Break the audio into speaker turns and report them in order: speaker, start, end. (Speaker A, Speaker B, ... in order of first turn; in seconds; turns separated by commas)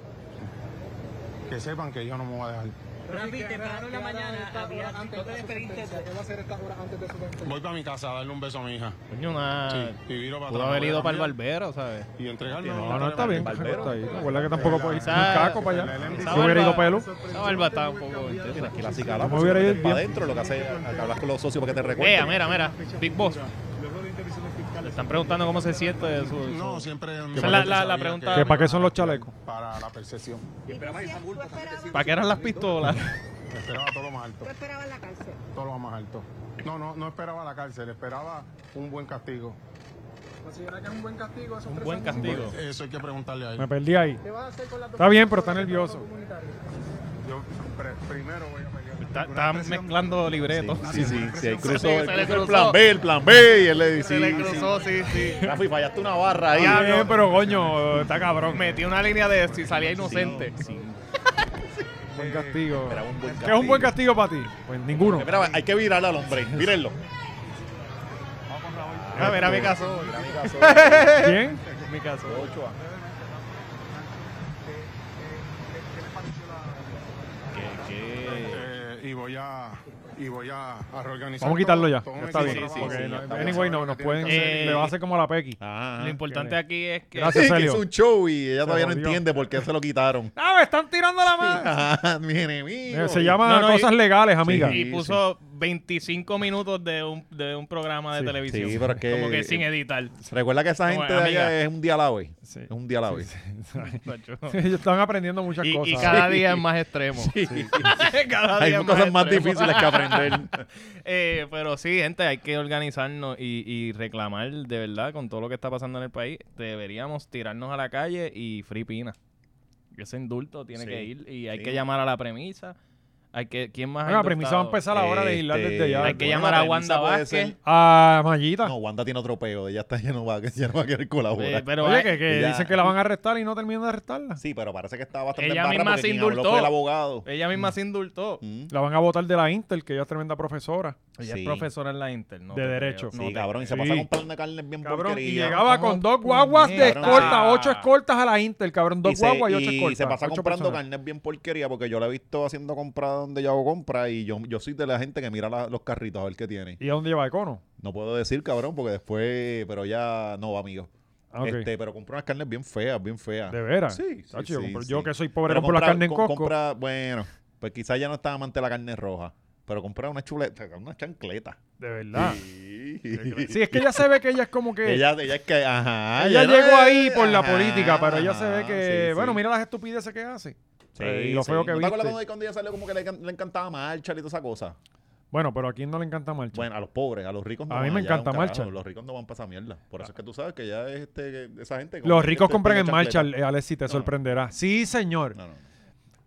Speaker A: 1.5-9.0, Speaker B: 3.1-6.0, Speaker C: 9.1-13.0, Speaker A: 9.7-11.3, Speaker A: 12.2-19.4, Speaker D: 12.6-17.1, Speaker E: 13.2-14.7, Speaker C: 15.0-18.9, Speaker E: 18.6-22.5, Speaker D: 19.2-20.1, Speaker A: 19.9-21.1, Speaker C: 22.0-23.5, Speaker A: 22.7-23.4, Speaker A: 24.0-25.0, Speaker C: 24.8-28.7, Speaker A: 26.2-32.7, Speaker D: 27.4-27.7, Speaker D: 28.3-29.3, Speaker B: 30.7-31.9, Speaker C: 31.9-33.1, Speaker A: 33.5-34.6, Speaker B: 34.5-35.4, Speaker A: 35.4-39.6, Speaker A: 40.6-43.7, Speaker C: 41.6-42.6, Speaker D: 43.6-44.2, Speaker A: 44.4-44.8, Speaker D: 45.0-46.1, Speaker A: 46.1-46.4, Speaker A: 47.2-50.2, Speaker C: 49.0-52.8, Speaker E: 50.5-58.0, Speaker A: 50.8-52.6, Speaker C: 53.9-55.5, Speaker A: 54.2-55.4, Speaker D: 56.5-58.8, Speaker C: 56.6-57.1, Speaker C: 58.4-60.5, Speaker A: 59.6-59.9, Speaker E: 60.0-61.0, Speaker D: 62.1-65.3, Speaker E: 62.2-64.0, Speaker E: 64.9-67.0, Speaker A: 65.3-65.6, Speaker A: 68.5-70.6, Speaker E: 68.8-71.3, Speaker C: 69.2-72.5, Speaker D: 69.2-69.7, Speaker D: 71.2-71.6, Speaker E: 72.2-72.8, Speaker A: 72.9-74.0, Speaker A: 74.7-84.9, Speaker C: 77.5-78.7, Speaker D: 81.4-85.6, Speaker C: 82.2-83.2, Speaker E: 83.0-83.7, Speaker C: 84.2-84.9, Speaker E: 85.6-86.2, Speaker C: 86.0-87.5, Speaker D: 86.3-86.6, Speaker D: 87.1-87.8, Speaker E: 87.3-90.3, Speaker D: 88.6-89.2, Speaker D: 90.3-91.7, Speaker E: 91.3-93.4, Speaker D: 92.9-94.8, Speaker C: 93.4-93.9, Speaker E: 94.4-95.2, Speaker C: 94.6-100.2, Speaker E: 98.5-99.7, Speaker E: 100.3-103.3, Speaker C: 100.8-101.5, Speaker D: 102.5-106.3, Speaker C: 103.8-104.6, Speaker C: 105.6-119.2, Speaker E: 106.0-110.6, Speaker C: 119.9-122.8, Speaker E: 120.7-121.8, Speaker C: 123.3-124.8, Speaker D: 124.0-126.3, Speaker E: 124.9-127.6, Speaker C: 126.0-127.5, Speaker D: 127.6-128.7, Speaker E: 128.6-132.9, Speaker C: 131.4-132.2, Speaker D: 131.8-134.4, Speaker E: 134.4-137.3, Speaker C: 135.3-136.7, Speaker C: 137.2-138.4, Speaker E: 138.4-138.7, Speaker D: 138.7-141.0, Speaker C: 141.2-143.8, Speaker E: 141.2-141.7, Speaker D: 142.5-143.1, Speaker E: 143.1-145.7, Speaker D: 143.7-144.1, Speaker D: 144.8-150.8, Speaker C: 145.5-147.9, Speaker E: 146.7-147.4, Speaker E: 149.0-156.8, Speaker D: 156.8-157.6, Speaker E: 157.8-160.9, Speaker D: 161.3-161.7, Speaker E: 161.4-171.6, Speaker D: 163.5-166.5, Speaker D: 171.8-172.4, Speaker E: 172.1-174.0, Speaker D: 173.1-175.1, Speaker E: 174.8-179.4, Speaker D: 176.2-182.2, Speaker E: 180.9-184.8, Speaker D: 185.3-186.7, Speaker E: 186.5-193.3, Speaker D: 187.7-188.7, Speaker D: 192.0-195.3, Speaker E: 195.3-195.6